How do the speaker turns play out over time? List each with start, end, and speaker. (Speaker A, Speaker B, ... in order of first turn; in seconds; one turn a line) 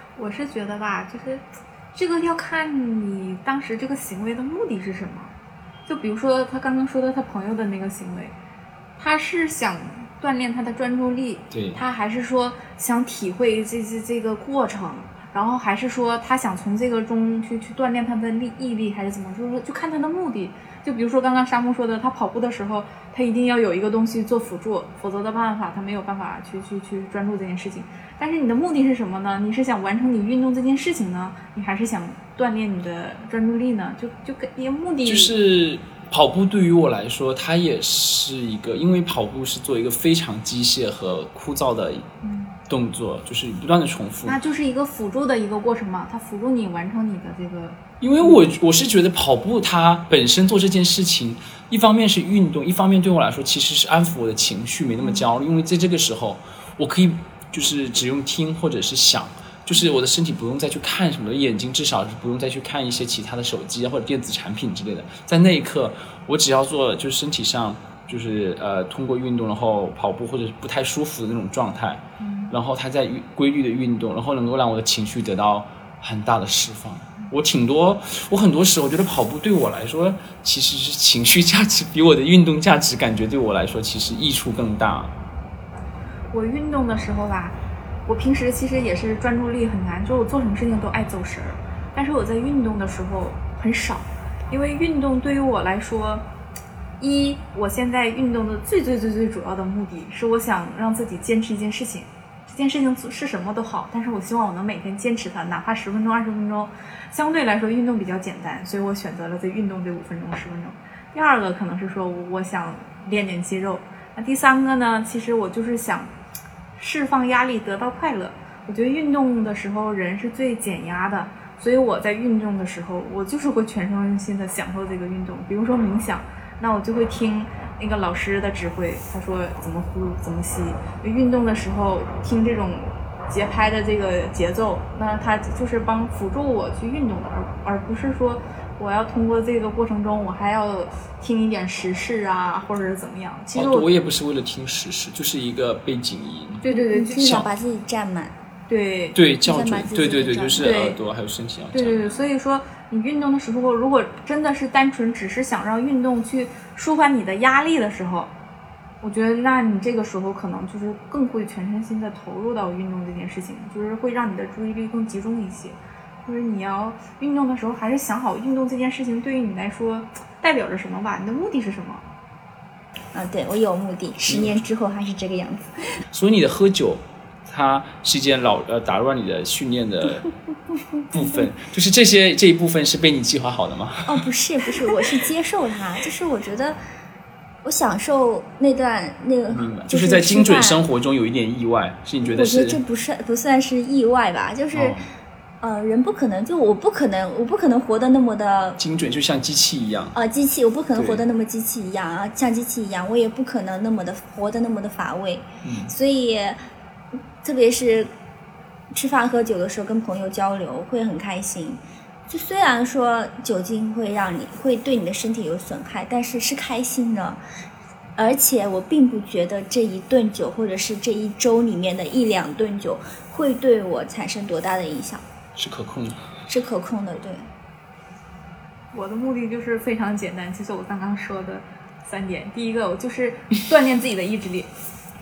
Speaker A: 0.1-5.3
Speaker A: 5.9-8.3
Speaker A: 9.0-35.3
Speaker B: 11.5-11.8
Speaker B: 35.0-42.1
Speaker A: 42.2-42.5
Speaker B: 42.7-44.4
Speaker A: 44.2-48.5
Speaker B: 48.0-85.1
Speaker A: 72.2-72.5
Speaker A: 86.3-87.5
Speaker A: 88.1-96.2
Speaker A: 97.0-116.1
Speaker A: 116.8-143.9
Speaker B: 143.5-146.6
Speaker A: 146.6-147.4
Speaker C: 146.7-148.3
Speaker B: 147.2-147.4
Speaker A: 148.7-149.2
Speaker B: 149.1-152.1
Speaker C: 149.4-150.8
Speaker A: 150.6-151.0
Speaker A: 151.7-158.3
Speaker A: 159.0-172.0
Speaker C: 173.1-176.0
Speaker B: 176.1-180.3
Speaker B: 181.1-184.2
Speaker C: 184.1-186.8
Speaker C: 187.6-190.8
Speaker B: 189.5-192.8
Speaker C: 192.2-195.0
Speaker B: 194.7-195.1
Speaker C: 195.6-198.8
Speaker B: 198.8-200.1
Speaker C: 200.1-206.6
Speaker B: 200.9-201.2
Speaker B: 205.6-205.9
Speaker C: 207.4-208.1
Speaker C: 208.9-217.4
Speaker C: 218.2-225.2
Speaker B: 225.6-226.2
Speaker C: 226.5-227.5
Speaker A: 228.9-234.7